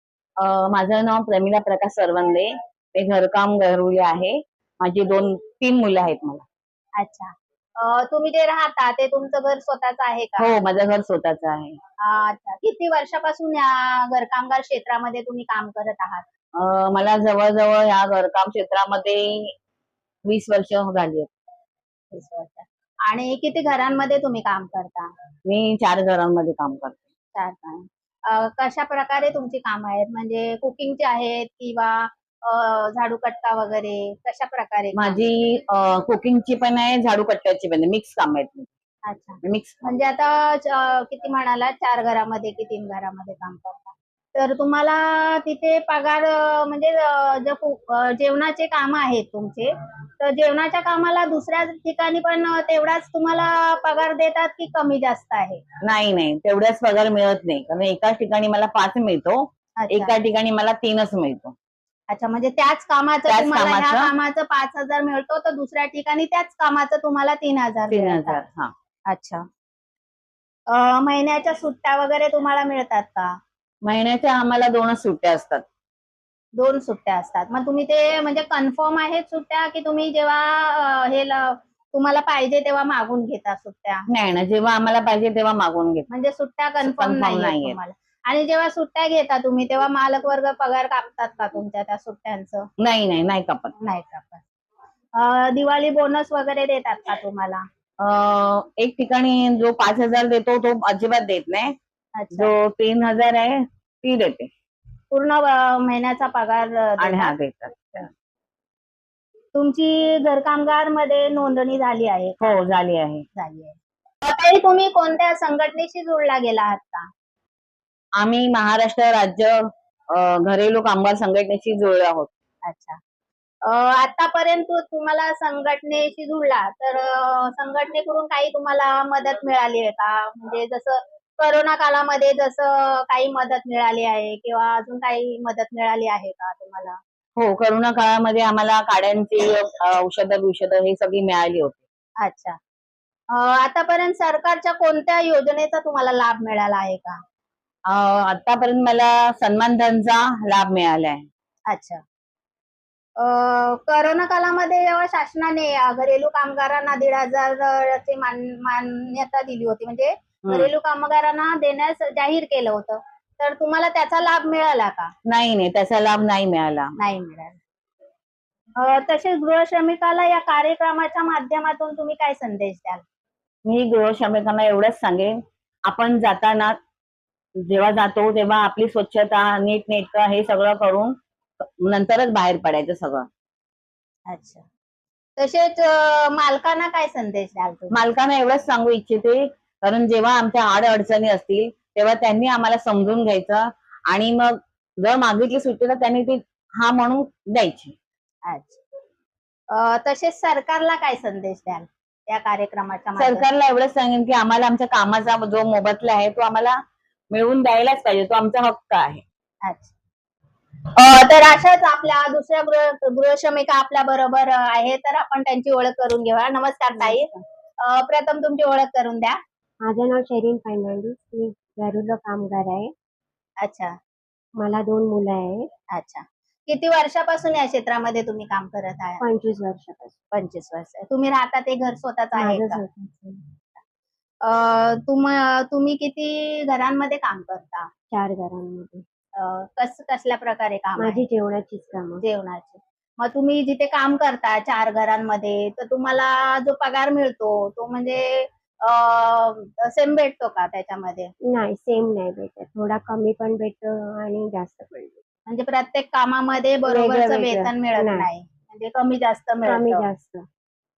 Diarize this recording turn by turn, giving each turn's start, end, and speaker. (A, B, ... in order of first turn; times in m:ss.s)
0:00.4-0:06.4 A
0:07.0-0:10.5 B
0:10.4-0:11.8 A
0:12.0-0:16.2 B
0:16.6-0:19.5 A
0:20.2-0:21.3 A
0:22.1-0:25.1 B
0:25.4-0:27.0 A
0:27.3-0:35.3 B
0:35.0-0:38.7 A
0:39.0-0:55.6 B
0:39.4-0:39.8 A
0:55.8-1:01.5 A
0:59.8-1:00.1 B
1:02.1-1:08.4 B
1:03.3-1:04.1 A
1:07.9-1:08.7 A
1:09.1-1:09.4 B
1:10.7-1:13.4 B
1:13.8-1:15.6 A
1:16.6-1:24.0 B
1:24.1-1:26.1 A
1:26.1-1:32.7 B
1:26.8-1:27.8 A
1:32.8-1:33.7 A
1:33.8-1:34.4 B
1:35.2-1:37.6 B
1:38.0-1:41.8 A
1:42.2-1:42.5 B
1:42.3-1:44.5 A
1:45.1-1:47.3 B
1:47.0-1:48.1 A
1:49.5-1:52.4 B
1:52.4-1:53.3 A
1:53.4-1:57.1 B
1:58.2-1:59.6 A
2:00.1-2:02.3 A
2:02.6-2:03.0 B
2:03.6-2:17.0 B
2:17.4-2:21.8 A
2:22.2-2:22.6 B
2:23.3-2:27.2 B
2:27.9-2:31.2 A
2:31.7-2:32.0 B
2:33.2-2:45.1 B
2:40.4-2:40.7 A
2:45.2-2:46.9 A
2:47.0-2:47.6 B
2:48.8-2:53.0 B
2:53.6-2:56.8 A
2:57.7-3:03.3 A
3:04.3-3:04.6 B
3:05.4-3:08.0 B
3:07.9-3:17.9 A
3:18.4-3:18.8 B
3:19.7-3:23.4 B
3:23.2-3:26.8 A
3:27.3-3:29.2 A
3:29.6-3:29.9 B
3:31.0-3:37.3 B
3:37.0-3:37.3 C
3:37.8-3:39.4 B
3:39.8-3:42.9 C
3:43.6-3:43.9 B
3:44.6-3:45.7 C
3:45.9-3:49.2 B
3:49.2-3:50.1 C
3:50.3-3:52.8 B
3:52.4-3:53.4 C
3:54.4-3:57.9 B
3:58.1-3:59.0 C
3:59.4-4:01.2 B
4:01.0-4:02.2 C
4:02.2-4:11.3 B
4:11.5-4:15.2 C
4:15.5-4:20.1 B
4:16.8-4:18.3 C
4:19.6-4:20.5 C